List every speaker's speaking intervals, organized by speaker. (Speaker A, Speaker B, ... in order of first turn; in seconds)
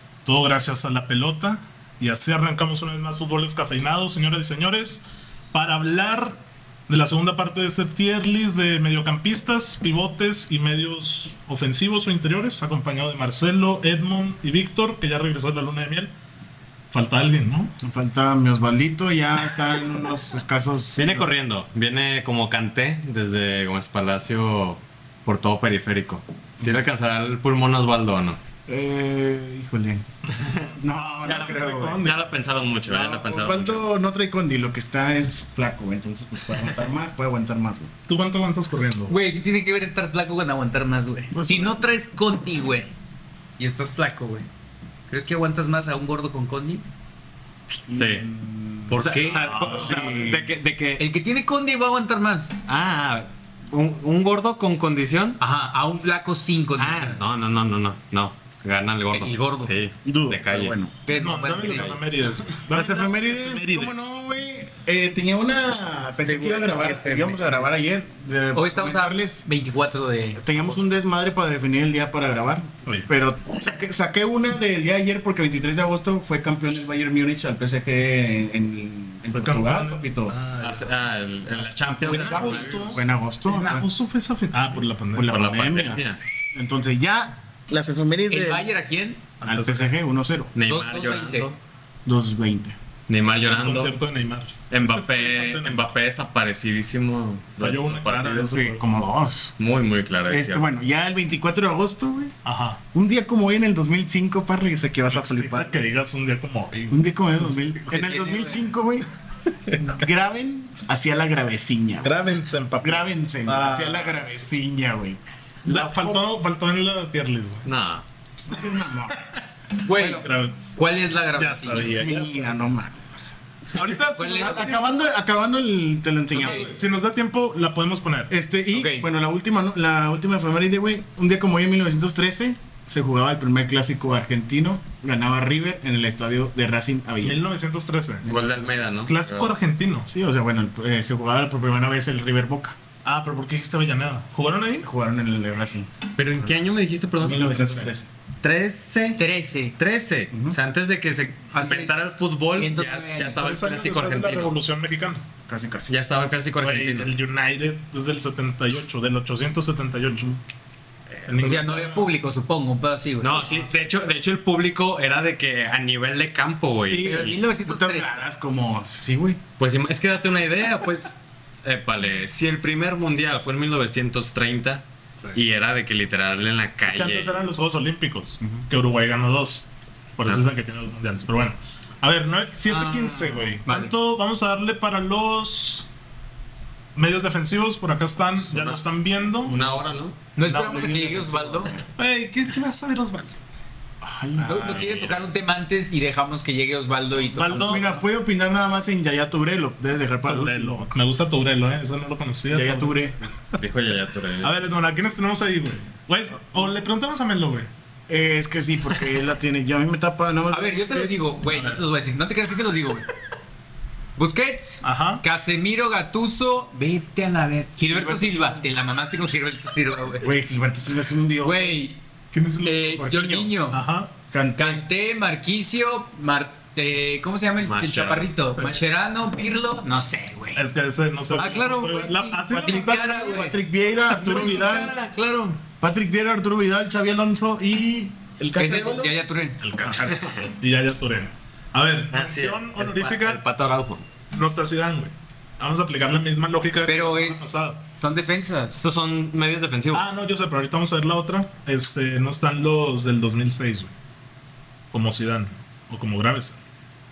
Speaker A: 0.2-16.1, 16.9-17.7, 31.2-32.2, 38.1-39.1, 49.4-50.3, 61.1-64.1, 72.8-73.1, 79.3-80.9, 82.0-85.3, 89.4-89.9, 93.5-95.9, 97.6-98.9, 102.4-102.8, 105.1-107.7, 112.0-114.5, 115.6-117.7, 119.8-120.7, 121.3-122.6, 123.7-124.9, 126.3-128.3, 137.2-138.3, 139.0-140.1, 143.0-144.9, 147.3-147.9, 153.3-155.2, 156.6-160.4, 161.2-162.2, 163.3-163.9, 176.8-179.6, 180.2-185.9, 186.9-189.6, 190.4-191.3, 192.0-193.4, 194.3-195.0, 197.3-197.9, 200.2-203.0, 204.4-207.7, 211.4-211.8, 214.8-215.2, 217.9-218.6, 222.3-223.1, 223.7-224.1, 230.5-233.5, 234.1-234.9, 238.4-243.4, 244.3-247.8, 249.9-253.9, 254.9-256.6
Speaker B: 17.8-21.3, 28.7-30.0, 30.8-32.1, 32.9-37.9, 41.3-41.8, 47.9-50.5, 60.0-60.9, 62.7-69.5, 70.4-80.3, 81.6-83.8, 85.1-86.0, 86.5-88.7, 89.4-90.5, 92.0-92.7, 98.5-99.5, 100.3-102.3, 102.9-105.8, 106.9-109.1, 109.8-112.1, 112.8-116.2, 118.5-119.2, 121.9-123.3, 124.2-126.7, 128.3-137.4, 138.4-138.7, 140.1-142.8, 144.8-145.9, 147.2-148.1, 150.3-150.6, 155.5-155.9, 167.1-169.4, 189.5-190.0, 190.6-191.8, 194.0-194.8, 197.5-200.9, 202.5-203.2, 208.1-211.3, 220.2-221.8, 222.9-223.5, 224.3-224.8, 232.5-234.9, 235.8-238.9
Speaker C: 20.9-28.4, 32.0-33.9, 47.9-48.2, 48.9-51.0, 52.7-55.4, 56.8-60.7, 61.6-62.0, 80.6-83.0, 85.2-86.2, 90.5-91.6, 93.1-94.0, 94.7-98.6, 99.6-100.7, 117.6-118.0, 138.2-139.5, 146.2-147.4, 148.4-149.2, 149.8-154.5, 155.9-157.1, 163.2-167.3, 169.6-177.4, 188.4-188.8, 189.3-190.2, 194.6-195.3, 203.5-204.6, 227.6-228.3, 240.0-240.4, 242.1-244.1, 248.8-250.1
Speaker D: 39.1-42.9, 43.6-44.5, 45.1-46.9, 49.0-49.5, 51.0-52.5, 55.4-57.2, 59.1-59.7, 61.0-62.0, 66.2-67.7, 68.5-70.9, 88.3-89.2, 90.7-91.5, 107.9-108.6, 119.8-121.9, 124.0-124.8, 126.3-126.6, 128.7-129.1, 149.2-149.8, 151.5-153.4, 161.4-163.5, 166.9-168.2, 182.7-183.9, 190.3-191.8, 194.4-198.0, 210.5-213.1, 214.2-220.3, 221.4-222.0, 222.6-223.8, 224.6-230.6, 231.3-233.6, 234.2-235.6, 238.5-239.6, 246.8-248.8